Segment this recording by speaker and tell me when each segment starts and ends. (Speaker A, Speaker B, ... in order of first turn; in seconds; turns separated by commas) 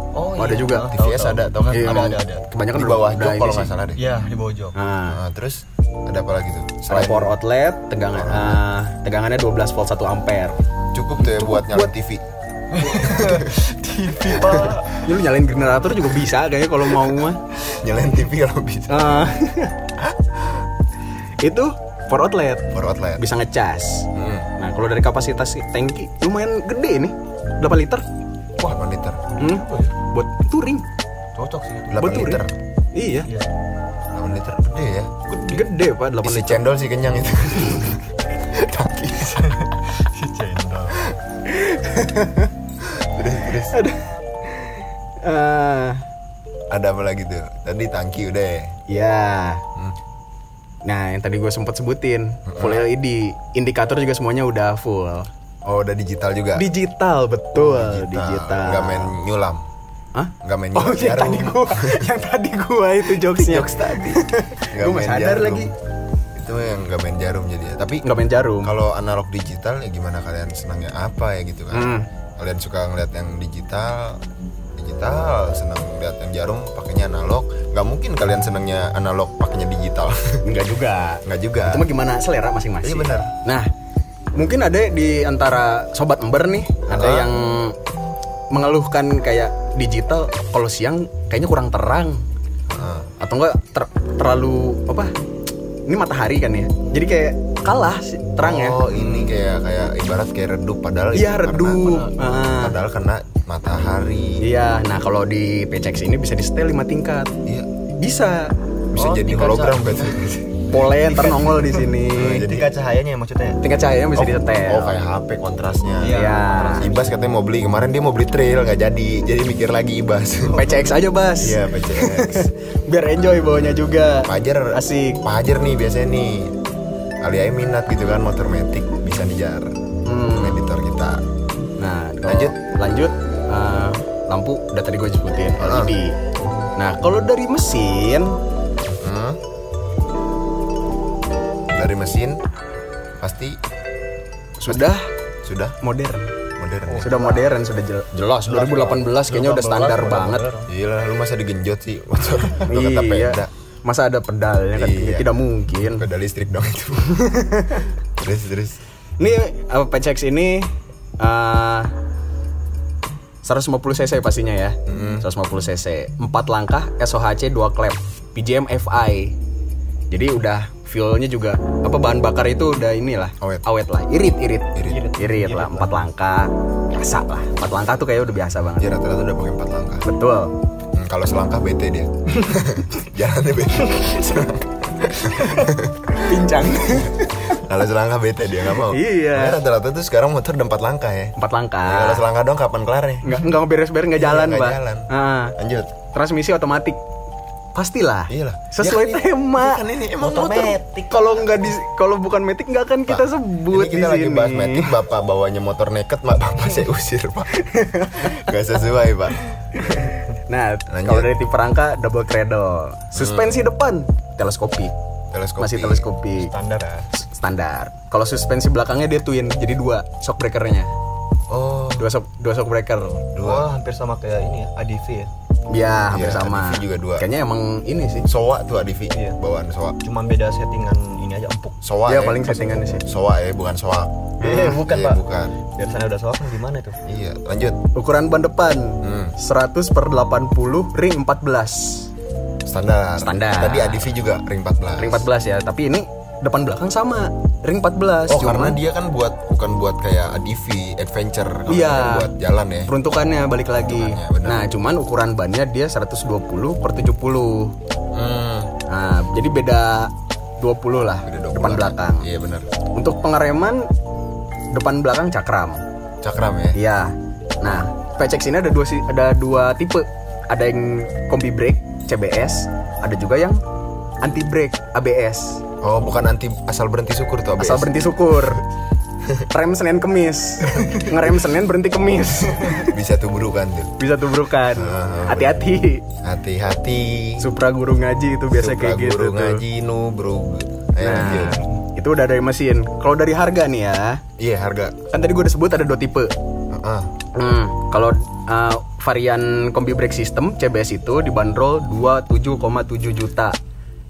Speaker A: 0.1-2.4, Speaker B: 0.4-0.9, Speaker C: 0.9-2.2, Speaker B: 1.7-3.7, Speaker C: 2.7-4.0, Speaker A: 4.0-4.8, Speaker B: 4.8-5.2, Speaker C: 5.1-7.3, Speaker B: 6.9-10.6, Speaker C: 8.1-8.6, Speaker C: 10.9-12.2, Speaker B: 11.2-11.9, Speaker A: 12.7-15.0, Speaker C: 12.9-13.5, Speaker C: 14.3-14.8, Speaker B: 14.9-17.4, Speaker C: 17.0-19.2, Speaker B: 18.9-19.8, Speaker C: 20.0-20.6, Speaker B: 21.4-28.0, Speaker C: 22.7-23.2, Speaker C: 24.1-24.5, Speaker C: 28.6-29.2, Speaker A: 29.3-29.9, Speaker B: 29.4-30.8, Speaker A: 31.4-32.3, Speaker C: 31.9-32.5, Speaker B: 32.0-32.4, Speaker B: 32.9-33.3, Speaker C: 34.1-35.3, Speaker B: 35.4-36.6, Speaker C: 36.2-39.6, Speaker A: 39.4-41.1, Speaker B: 41.5-42.5, Speaker C: 42.8-43.8, Speaker B: 43.7-46.0, Speaker C: 46.7-48.8, Speaker B: 48.9-49.6, Speaker B: 50.8-55.3, Speaker C: 52.5-52.9, Speaker C: 55.6-56.6, Speaker B: 56.5-59.1, Speaker C: 57.5-59.6, Speaker B: 60.1-65.7, Speaker C: 60.4-62.1, Speaker C: 63.1-65.7, Speaker C: 66.3-68.0, Speaker B: 68.0-68.7, Speaker C: 68.6-74.2, Speaker B: 71.7-72.0, Speaker C: 74.8-80.4, Speaker B: 80.4-83.7, Speaker C: 81.2-81.9, Speaker C: 82.8-83.3, Speaker B: 84.3-87.8, Speaker C: 86.9-87.3, Speaker B: 88.5-92.2, Speaker C: 92.7-93.1, Speaker B: 93.2-95.1, Speaker B: 95.9-98.8, Speaker C: 98.4-104.5, Speaker A: 98.9-99.3, Speaker B: 101.1-102.8, Speaker B: 104.4-107.3, Speaker B: 108.0-108.5, Speaker C: 108.9-110.7, Speaker A: 109.0-110.1, Speaker B: 110.7-112.5, Speaker A: 111.1-113.6, Speaker C: 112.1-112.7, Speaker B: 113.6-115.0, Speaker C: 114.1-120.8, Speaker A: 116.0-117.0, Speaker B: 116.1-116.9, Speaker B: 120.5-125.2, Speaker C: 121.4-122.5, Speaker C: 124.2-126.5, Speaker C: 127.2-129.7, Speaker B: 130.0-130.6, Speaker C: 130.3-131.2, Speaker B: 131.8-136.2, Speaker C: 132.2-132.6, Speaker C: 135.6-136.0, Speaker B: 136.8-138.4, Speaker C: 138.9-139.4, Speaker C: 141.7-142.4, Speaker C: 143.2-143.6, Speaker C: 144.6-144.9, Speaker B: 144.6-145.1, Speaker C: 145.4-145.8, Speaker B: 145.8-146.3, Speaker C: 146.6-147.1, Speaker A: 146.9-147.5, Speaker B: 147.0-150.4, Speaker A: 148.5-150.7, Speaker C: 150.7-153.5, Speaker B: 152.6-156.1, Speaker C: 154.8-157.3, Speaker B: 157.2-157.9, Speaker C: 158.2-158.8, Speaker B: 159.2-161.9, Speaker B: 163.4-169.3, Speaker C: 164.8-165.2, Speaker B: 170.1-178.9, Speaker C: 173.4-173.6, Speaker C: 174.8-175.1, Speaker A: 174.9-175.9, Speaker C: 178.8-180.0, Speaker B: 180.0-180.5, Speaker C: 180.9-193.5, Speaker B: 185.4-187.6, Speaker B: 188.7-189.6, Speaker B: 191.4-192.2, Speaker B: 193.2-195.6, Speaker C: 194.1-195.9, Speaker B: 196.1-197.0, Speaker B: 197.8-199.8, Speaker C: 198.3-200.8, Speaker A: 200.2-201.4, Speaker B: 201.1-204.9, Speaker C: 203.1-209.4, Speaker B: 207.5-208.5, Speaker B: 209.8-214.9, Speaker C: 210.9-211.4, Speaker C: 213.1-213.6, Speaker C: 215.3-216.1, Speaker B: 215.6-216.5, Speaker A: 216.4-217.1, Speaker B: 217.1-220.9, Speaker C: 221.5-222.1, Speaker B: 222.0-223.2, Speaker C: 223.3-223.7, Speaker A: 223.4-225.3, Speaker B: 225.7-228.3, Speaker C: 226.1-227.3, Speaker C: 228.2-230.0, Speaker A: 229.1-229.4, Speaker A: 230.0-231.8, Speaker C: 231.8-235.6, Speaker B: 232.1-233.1, Speaker A: 234.4-235.2, Speaker B: 234.4-234.8, Speaker A: 235.7-237.0, Speaker C: 237.0-237.8, Speaker B: 237.9-242.1, Speaker C: 239.0-239.3, Speaker C: 242.7-245.3, Speaker B: 243.2-244.1, Speaker B: 245.0-248.8, Speaker C: 248.3-252.9, Speaker B: 251.7-252.3, Speaker B: 252.9-257.7, Speaker C: 253.8-254.6, Speaker C: 258.1-258.7, Speaker B: 258.9-262.3, Speaker C: 261.2-262.6, Speaker B: 262.9-263.9, Speaker B: 264.7-265.8, Speaker C: 266.2-266.8, Speaker B: 266.7-273.6, Speaker B: 274.2-275.6, Speaker C: 275.8-278.0, Speaker B: 277.6-278.6, Speaker B: 279.5-282.9, Speaker C: 282.8-283.9, Speaker B: 284.0-286.0, Speaker C: 284.7-285.6, Speaker C: 286.2-287.5, Speaker B: 287.4-289.6, Speaker C: 288.5-291.6, Speaker B: 291.0-294.2, Speaker A: 291.3-291.8, Speaker C: 294.4-294.9, Speaker B: 295.1-296.3, Speaker C: 296.7-297.1, Speaker B: 297.3-303.6